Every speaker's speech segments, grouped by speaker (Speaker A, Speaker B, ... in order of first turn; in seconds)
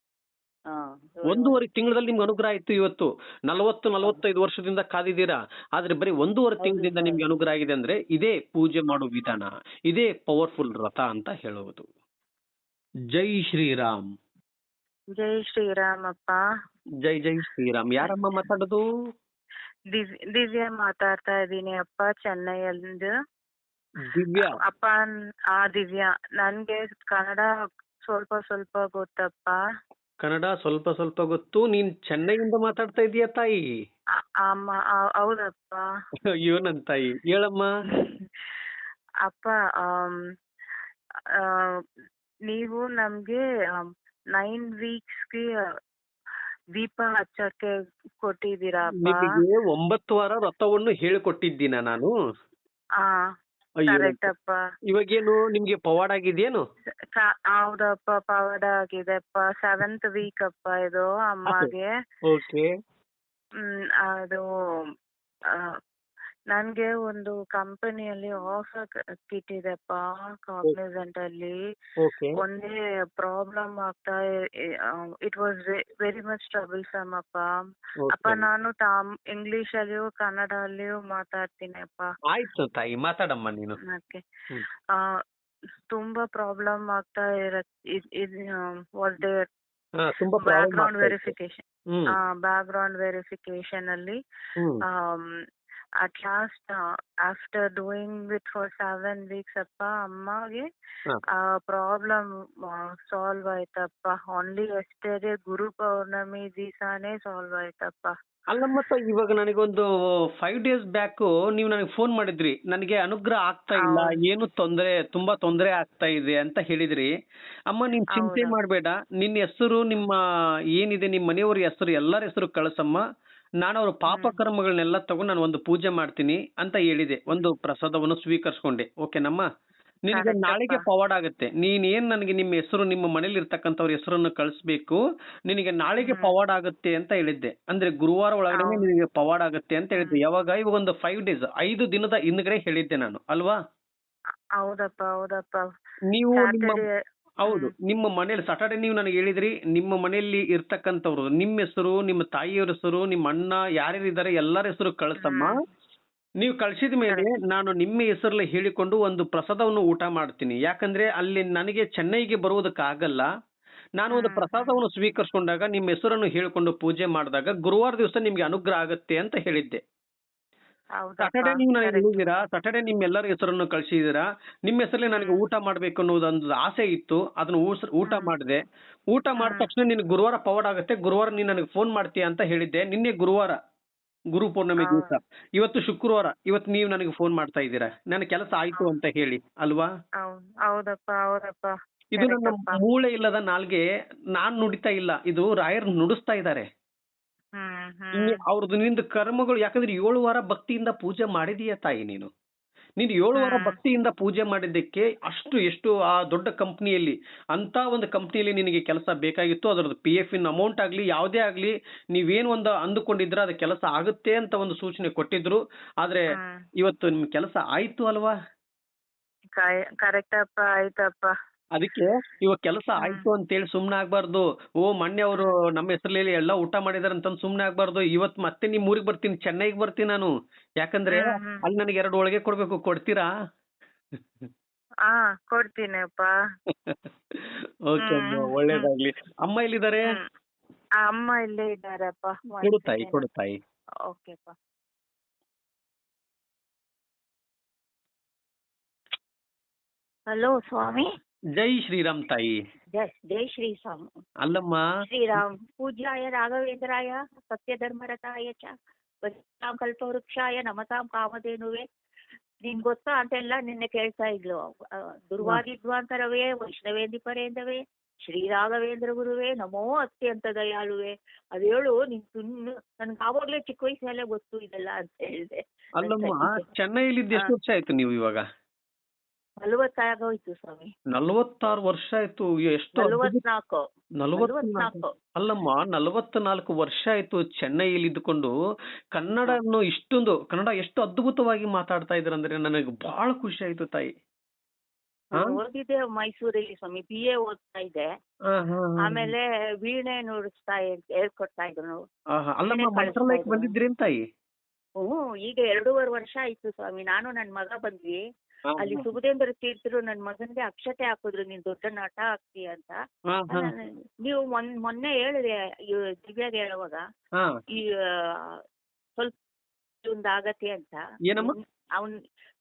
Speaker A: 0.7-1.6, 6.6-7.2, 250.3-251.1, 252.9-254.1, 255.1-261.9, 262.6-276.7, 279.6-280.9, 283.0-283.8, 284.4-285.1, 295.4-298.1, 299.0-302.1, 302.7-303.7, 305.0-308.2, 308.8-315.5, 316.2-317.0, 317.8-318.6, 320.0-322.2
Speaker B: 1.3-11.9, 13.1-14.0, 17.0-18.8, 24.1-24.5, 30.2-33.6, 36.4-37.6, 49.0-52.1, 53.8-54.3, 54.9-56.6, 62.3-62.7, 72.0-72.3, 78.0-78.4, 82.3-83.8, 90.0-91.3, 108.5-109.9, 110.4-117.1, 117.7-120.2, 120.8-123.0, 123.6-129.4, 130.1-143.6, 146.1-146.8, 147.4-155.5, 156.4-163.2, 164.0-169.8, 171.2-183.6, 184.3-189.9, 192.1-193.8, 194.4-196.7, 198.2-202.3, 203.0-216.2, 216.8-218.3, 221.8-230.3, 230.8-233.3, 236.9-240.2, 242.6-243.6, 251.6-252.6, 254.4-254.8, 276.0-278.4, 281.1-283.4, 284.2-288.5, 289.2-294.1, 298.5-299.3, 302.4-304.2, 308.7-309.1, 313.3-313.7, 321.3-321.6
Speaker C: 15.2-16.4, 19.9-23.1, 24.3-27.5, 28.1-29.6, 34.5-35.8, 39.3-40.2, 42.5-43.8, 44.3-45.5, 46.8-47.7, 48.2-49.3, 53.9-54.5, 57.2-61.9, 63.7-64.4, 66.5-71.6, 72.4-74.2, 75.2-77.4, 78.1-82.1, 83.9-84.2, 85.9-88.3, 89.0-89.5, 90.4-91.6, 92.4-94.2, 95.0-95.3, 96.0-100.7, 101.4-102.2, 103.1-108.1, 113.8-114.1, 118.1-118.5, 124.1-124.4, 130.1-130.8, 136.1-136.3, 138.6-138.8, 144.6-145.6, 146.3-146.9, 147.5-147.7, 155.2-155.5, 164.1-164.8, 171.0-172.2, 175.2-175.4, 179.4-179.7, 184.8-185.1, 190.2-192.8, 197.6-198.4, 203.4-203.8, 219.6-221.3, 223.0-223.2, 231.1-231.6, 235.1-236.3, 238.0-238.9, 241.0-243.2, 244.1-244.5